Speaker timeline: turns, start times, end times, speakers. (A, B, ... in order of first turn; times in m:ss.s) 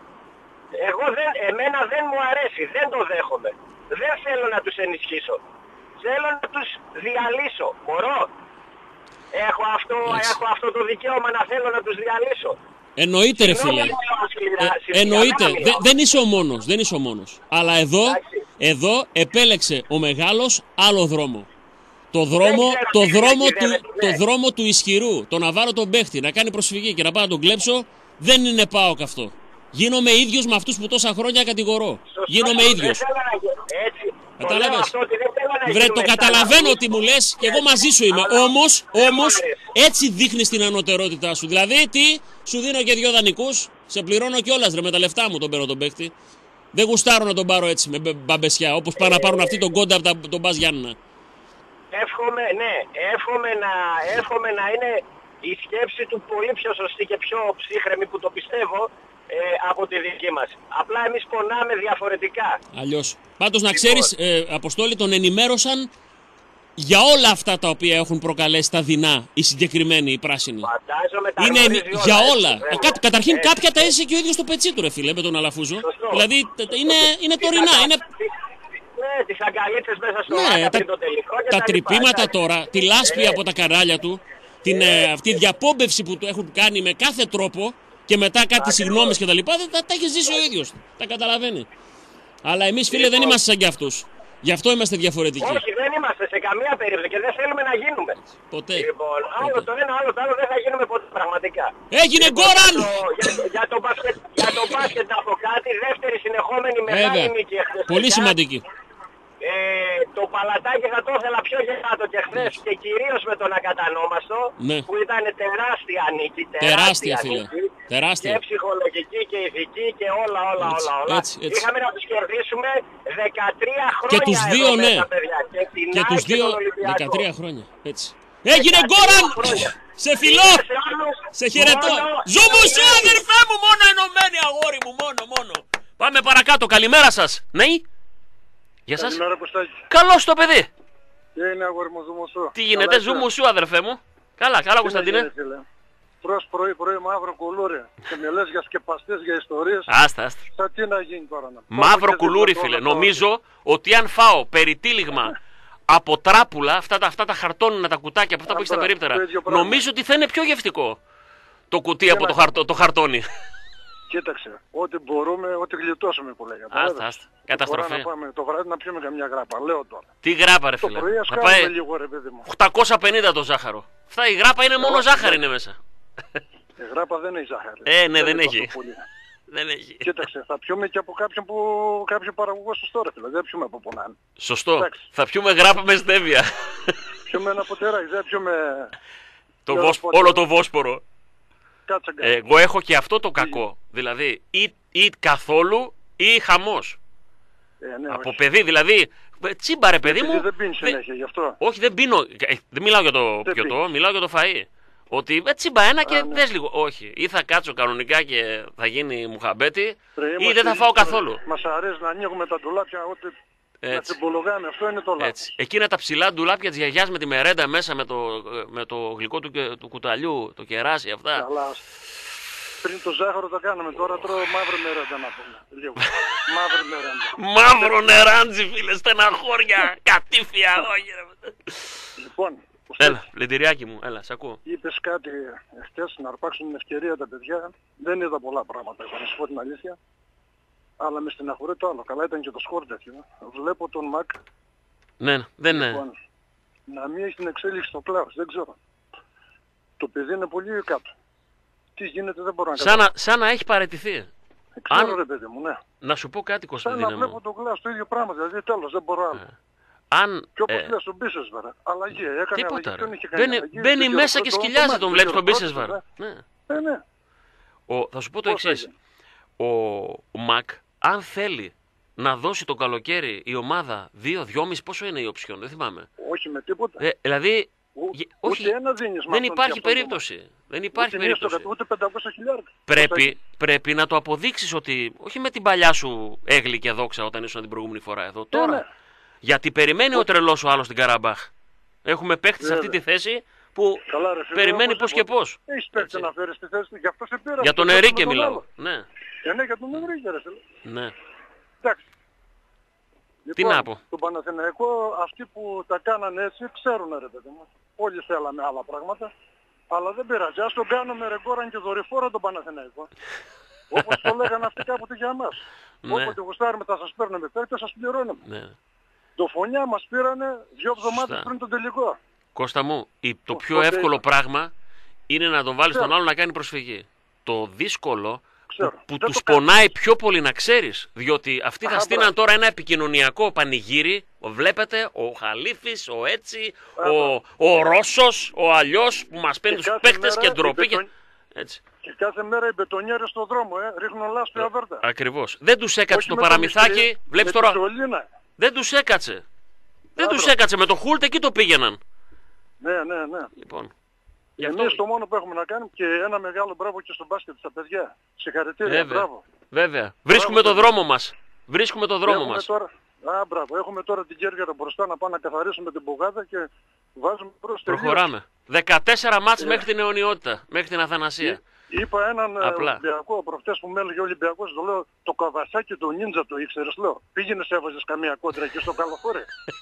0:00.8-0:05.4 A
0:06.0-0:08.3 A
0:09.3-0:12.6 A
0:10.0-0:10.4 B
0:13.0-0:13.9 B
0:13.4-0:15.8 A
0:14.6-0:21.5 B
0:18.1-0:18.4 A
0:22.1-0:33.0 B
0:22.4-0:24.2 A
0:32.1-0:36.8 A
0:34.4-0:34.9 B
0:35.6-0:46.1 B
0:37.4-0:39.7 A
0:46.7-0:51.0 B
0:49.0-0:49.6 A
0:51.9-1:02.6 A
1:02.7-1:05.9 B
1:03.7-1:04.1 A
1:06.8-1:10.7 B
1:10.6-1:13.9 A
1:11.4-1:18.0 B
1:15.8-1:16.2 A
1:16.8-1:18.3 A
1:19.0-1:22.3 A
1:20.3-1:20.9 B
1:21.5-1:31.7 B
1:23.0-1:23.4 A
1:24.7-1:25.1 A
1:28.6-1:29.2 A
1:32.4-1:35.6 B
1:32.9-1:33.4 A
1:35.4-1:38.2 A
1:38.5-1:39.7 B
1:38.8-1:48.3 A
1:41.9-1:43.0 B
1:46.9-1:47.3 B
1:47.9-1:48.6 B
1:49.4-2:07.2 A
1:54.6-1:54.9 B
1:56.6-1:58.4 B
2:00.6-2:01.7 B
2:04.1-2:05.1 B
2:05.9-2:10.6 B
2:08.5-2:13.2 A
2:11.3-2:17.8 B
2:18.9-2:19.2 B
2:19.0-2:19.8 C
2:19.9-2:20.7 B
2:21.4-2:23.3 C
2:22.5-2:25.3 B
2:24.8-2:25.6 C
2:26.2-2:29.9 C
2:29.9-2:30.4 B
2:30.5-2:33.2 C
2:31.7-2:35.3 B
2:35.9-2:41.0 B
2:38.5-2:39.8 C
2:41.7-2:43.3 B
2:42.1-2:42.5 C
2:44.1-2:50.1 C
2:46.7-2:48.1 B
2:50.2-2:51.7 B
2:50.8-2:52.5 C
2:52.4-2:55.8 B
2:54.8-2:55.4 C
2:56.8-2:59.1 C
2:57.8-2:58.7 B
2:59.5-3:00.1 B
3:00.0-3:04.2 C
3:04.4-3:07.0 B
3:04.8-3:05.0 C
3:07.3-3:08.9 C
3:09.6-3:11.0 B
3:09.7-3:10.4 C
3:11.9-3:12.3 C
3:12.2-3:17.0 B
3:17.8-3:18.4 C
3:18.1-3:21.0 B
3:20.0-3:21.6 C
3:21.6-3:31.4 B
3:23.4-3:23.8 C
3:26.0-3:26.4 C
3:30.2-3:33.3 C
3:33.8-3:34.2 B
3:33.9-3:35.5 C
3:35.2-3:41.4 B
3:41.3-3:41.8 C
3:42.8-3:48.2 C
3:47.4-3:51.9 B
3:52.2-3:53.2 C
3:53.0-3:54.6 B
3:54.6-4:00.0 C
4:01.0-4:04.4 C
4:05.2-4:06.0 B
4:05.7-4:06.2 C
4:06.9-4:08.8 C
4:10.0-4:11.1 C
4:12.0-4:13.0 C
4:12.8-4:14.3 B
4:14.8-4:15.8 C
4:14.9-4:15.2 B
4:16.0-4:17.4 B
4:16.8-4:19.4 C
4:20.1-4:20.9 B
4:20.6-4:26.0 C
4:22.5-4:26.4 B
4:26.7-4:27.0 C
4:27.9-4:28.9 B
4:28.4-4:28.9 C
4:29.6-4:36.1 B
4:36.2-4:37.0 C
4:37.0-4:38.7 B
4:38.0-4:40.2 C
4:39.3-4:41.7 B
4:41.0-4:43.3 C
4:42.9-4:48.8 B
4:48.5-4:48.8 C
4:49.4-4:51.5 B
4:52.0-4:56.3 B
4:52.6-4:53.0 C
4:54.1-4:58.6 C
4:57.6-4:59.1 B
4:59.4-5:00.6 C
5:00.8-5:01.1 B
5:03.4-5:09.3 C
5:03.6-5:04.0 B
5:09.9-5:13.1 C
5:13.9-5:15.6 C
5:16.0-5:16.4 B
5:16.1-5:18.4 C
5:18.4-5:18.7 B
5:19.4-5:22.2 C
5:21.0-5:21.5 B
5:22.5-5:24.7 B
5:23.5-5:24.2 C
5:25.3-5:41.0 B
5:28.7-5:29.6 C
5:31.8-5:32.3 C
5:37.0-5:37.3 C
5:39.7-5:41.1 C
5:41.5-5:41.8 B
5:42.0-5:45.0 C
5:44.6-5:47.8 B
5:46.1-5:48.2 C
5:48.6-5:49.4 B
5:50.2-5:50.5 C
5:50.2-5:52.0 B
5:52.8-5:53.5 C
5:53.6-5:53.9 B
5:54.6-5:55.0 B
5:54.6-5:59.4 C
5:58.8-6:02.7 B
6:00.3-6:00.9 C
6:02.2-6:08.3 C
6:07.9-6:11.6 B
6:09.6-6:09.8 C
6:11.4-6:19.5 C
6:12.6-6:13.0 B